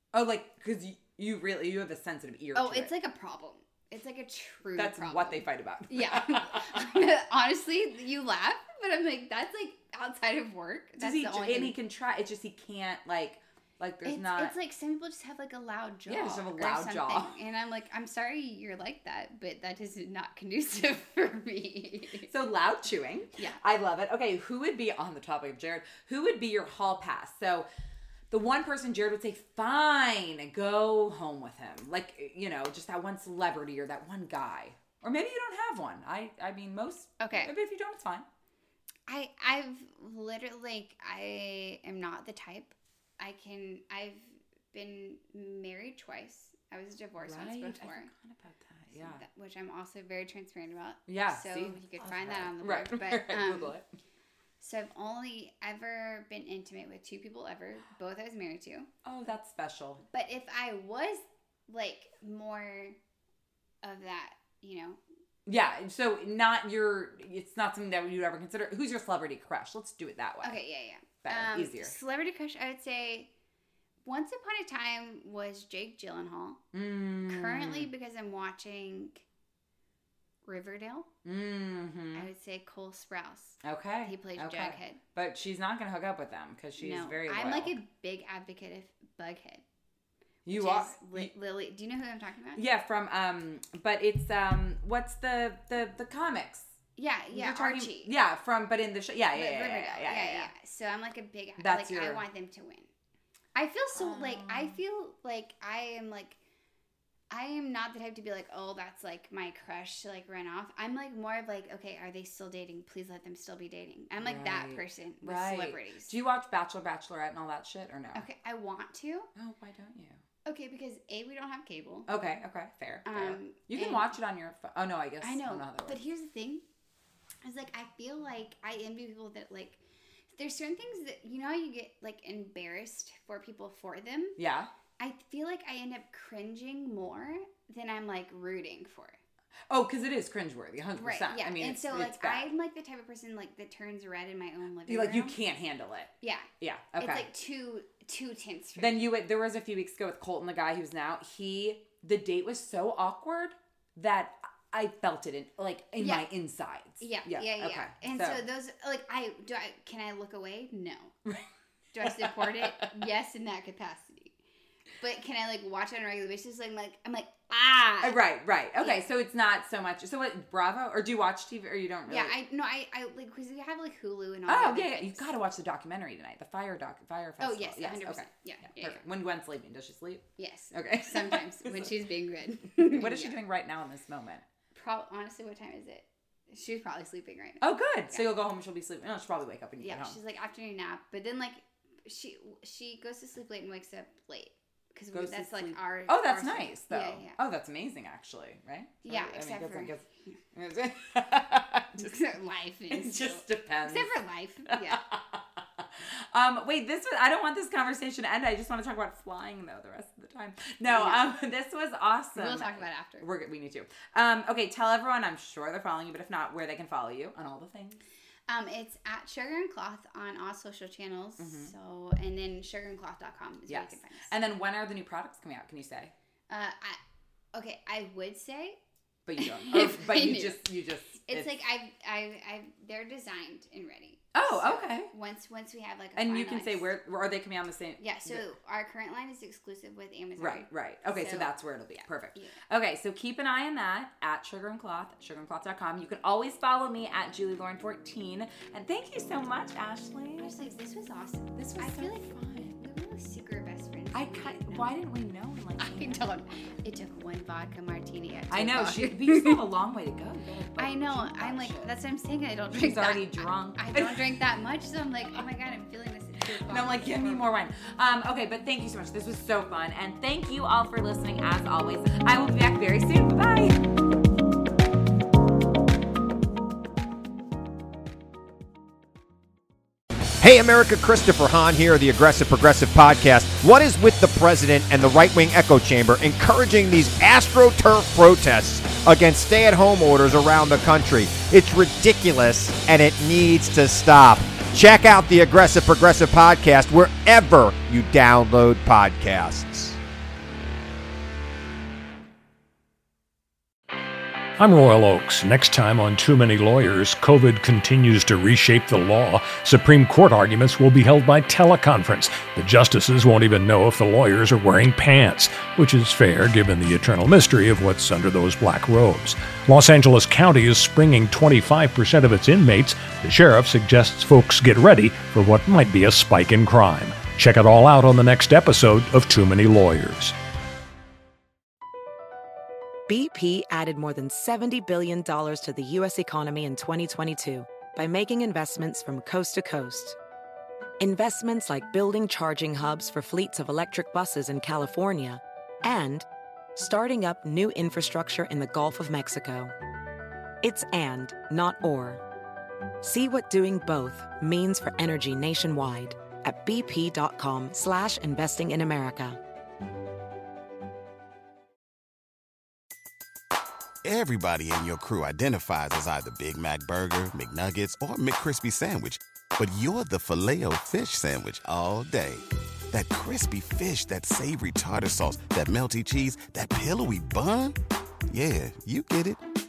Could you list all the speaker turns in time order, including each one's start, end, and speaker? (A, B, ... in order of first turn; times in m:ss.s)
0:00.1-0:02.9 A
0:02.5-0:11.8 B
0:04.8-0:07.1 A
0:11.0-0:14.6 A
0:14.0-0:22.3 B
0:16.1-0:17.4 A
0:22.3-0:27.7 A
0:28.3-0:38.3 A
0:37.2-0:37.5 B
0:39.1-0:48.1 B
0:47.2-0:49.2 A
0:48.9-0:53.8 B
0:51.1-0:53.9 A
0:54.6-0:58.9 B
0:59.0-1:00.1 A
1:00.1-1:03.0 B
1:03.8-1:05.0 B
1:05.5-1:10.6 A
1:10.4-1:13.3 B
1:11.2-1:12.0 A
1:14.0-1:16.6 B
1:16.7-1:17.9 A
1:17.3-1:19.2 B
1:20.4-1:21.1 B
1:21.2-1:22.3 A
1:22.1-1:25.0 B
1:23.6-1:27.8 A
1:26.8-1:29.6 B
1:30.4-1:31.3 A
1:30.5-1:32.6 B
1:32.6-1:36.8 A
1:37.0-1:38.1 B
1:37.3-1:40.5 A
1:39.4-1:42.9 B
1:41.6-1:42.2 A
1:43.5-1:46.4 B
1:44.0-1:44.8 A
1:47.3-1:56.1 B
1:54.2-1:58.3 A
1:58.1-1:59.3 B
1:59.4-2:00.2 A
2:00.4-2:02.1 B
2:02.1-2:06.0 A
2:03.0-2:04.2 B
2:05.2-2:06.6 B
2:07.4-2:09.8 B
2:10.4-2:14.4 B
2:14.4-2:14.7 A
2:15.0-2:19.2 B
2:19.7-2:22.5 A
2:21.0-2:25.4 B
2:24.9-2:27.3 A
2:26.2-2:29.1 B
2:28.8-2:38.4 A
2:36.0-2:36.3 B
2:37.0-2:41.2 B
2:41.9-2:44.4 B
2:42.0-2:42.9 A
2:45.0-2:48.2 B
2:48.0-2:52.4 A
2:48.8-2:49.0 B
2:52.1-2:55.3 B
2:54.5-3:01.9 A
2:57.4-2:59.1 B
3:00.4-3:03.4 B
3:02.8-3:04.4 A
3:04.7-3:08.3 B
3:07.6-3:10.2 A
3:09.8-3:17.4 B
3:15.1-3:22.2 A
3:19.0-3:20.4 B
3:22.0-3:25.0 B
3:22.9-3:24.1 A
3:24.6-3:38.0 A
3:30.8-3:31.3 B
3:32.4-3:33.3 B
3:38.5-3:44.3 B
3:41.4-3:41.7 A
3:43.7-3:46.1 A
3:46.5-3:47.0 B
3:47.5-3:48.8 B
3:49.3-3:51.6 A
3:49.4-3:50.7 B
3:51.3-3:56.9 B
3:54.3-3:55.1 A
3:56.2-3:58.5 A
3:58.0-4:02.6 B
4:00.4-4:10.8 A
4:10.4-4:15.0 B
4:11.5-4:12.8 A
4:14.1-4:16.3 A
4:15.8-4:19.7 B
4:18.5-4:22.0 A
4:20.8-4:27.4 B
4:22.7-4:24.4 A
4:26.5-4:33.9 A
4:40.4-5:00.0 C
5:04.6-5:30.4 D
5:33.1-5:40.2 E
5:41.0-5:49.7 E
5:50.6-5:52.2 E
5:53.0-5:59.4 E
6:04.0-6:17.8 F
6:18.3-6:19.4 F